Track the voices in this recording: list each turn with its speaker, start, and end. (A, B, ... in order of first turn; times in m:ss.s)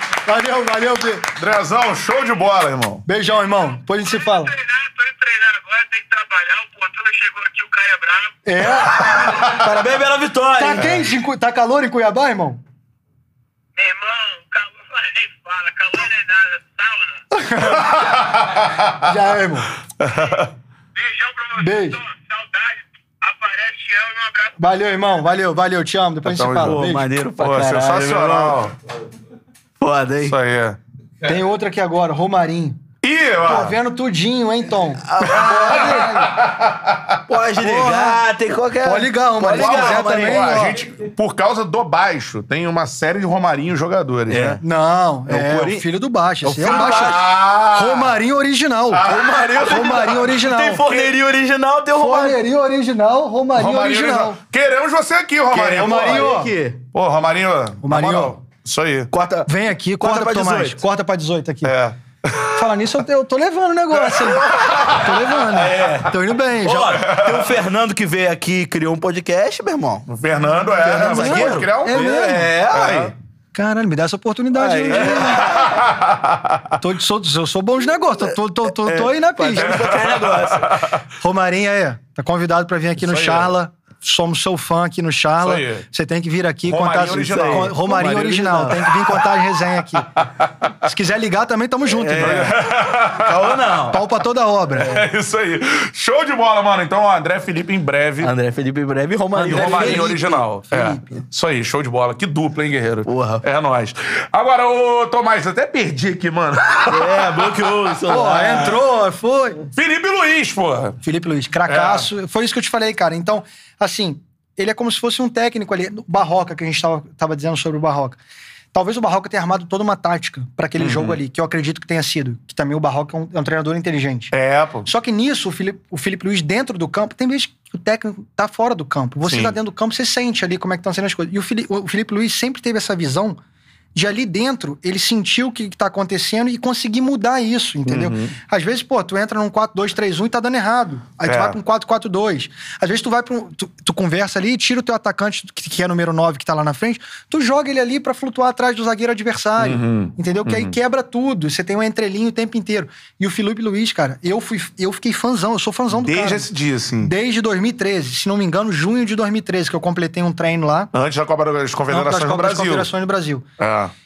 0:00.2-0:01.3 A
0:01.4-0:03.0 B
0:03.0-0:04.5 A
0:03.9-0:09.3 C
0:08.4-0:09.6 A
0:09.1-0:09.6 B
0:09.3-0:11.1 D
0:10.5-0:12.6 A
0:13.7-0:17.2 C
0:17.3-0:18.2 A
0:17.6-0:19.1 B
0:19.0-0:19.7 A
0:20.0-0:20.5 B
0:20.1-0:20.4 C
0:20.9-0:24.6 C
0:21.6-0:22.0 A
0:24.6-0:27.2 A
0:26.2-0:26.8 B
0:26.6-0:28.6 D
0:27.4-0:28.7 B
0:29.8-0:30.3 D
0:30.2-0:30.8 B
0:31.2-0:32.8 A
0:33.0-0:33.8 B
0:33.4-0:36.3 A
0:35.0-0:36.2 D
0:35.2-0:37.2 B
0:37.3-0:40.7 D
0:37.6-0:38.2 A
0:38.8-0:40.8 A
0:39.5-0:44.6 B
0:44.3-0:44.6 D
0:44.6-0:51.1 A
0:45.3-0:45.8 D
0:46.4-0:47.2 D
0:46.6-0:48.2 B
0:48.9-0:49.8 B
0:49.1-0:52.4 D
0:52.0-0:54.4 A
0:53.5-0:56.3 B
0:55.5-0:56.8 D
0:55.6-0:56.5 A
0:56.9-0:59.1 B
0:57.8-0:58.3 A
0:59.1-0:59.5 D
0:59.4-1:01.7 A
1:00.0-1:00.8 D
1:01.6-1:02.7 B
1:02.6-1:07.0 A
1:03.9-1:05.1 B
1:04.3-1:10.1 D
1:06.9-1:07.6 B
1:10.1-1:13.1 B
1:10.6-1:12.5 A
1:10.8-1:13.1 D
1:13.5-1:15.6 A
1:14.5-1:15.8 D
1:15.0-1:16.7 B
1:16.8-1:19.8 A
1:18.8-1:20.9 D
1:19.6-1:21.0 B
1:21.2-1:30.1 A
1:23.0-1:23.5 B
1:25.4-1:25.8 B
1:26.7-1:27.8 B
1:27.2-1:29.0 D
1:30.8-1:32.6 A
1:31.8-1:32.6 D
1:32.2-1:33.5 B
1:33.1-1:34.0 D
1:33.9-1:35.0 A
1:34.8-1:38.3 B
1:38.2-1:40.1 D
1:39.4-1:41.1 A
1:39.5-1:47.3 B
1:43.1-1:43.4 D
1:46.9-1:48.8 D
1:48.1-1:49.6 A
1:49.7-1:51.0 B
1:51.0-1:58.2 A
1:51.7-1:52.1 B
1:58.7-2:04.3 A
2:00.8-2:01.2 B
2:04.3-2:04.9 B
2:04.8-2:13.4 A
2:09.2-2:09.6 B
2:13.9-2:40.9 A
2:17.8-2:18.3 B
2:21.2-2:21.6 B
2:29.6-2:30.7 B
2:36.0-2:37.1 B
2:40.9-2:42.9 B
2:41.9-2:43.4 A
2:43.6-2:43.9 B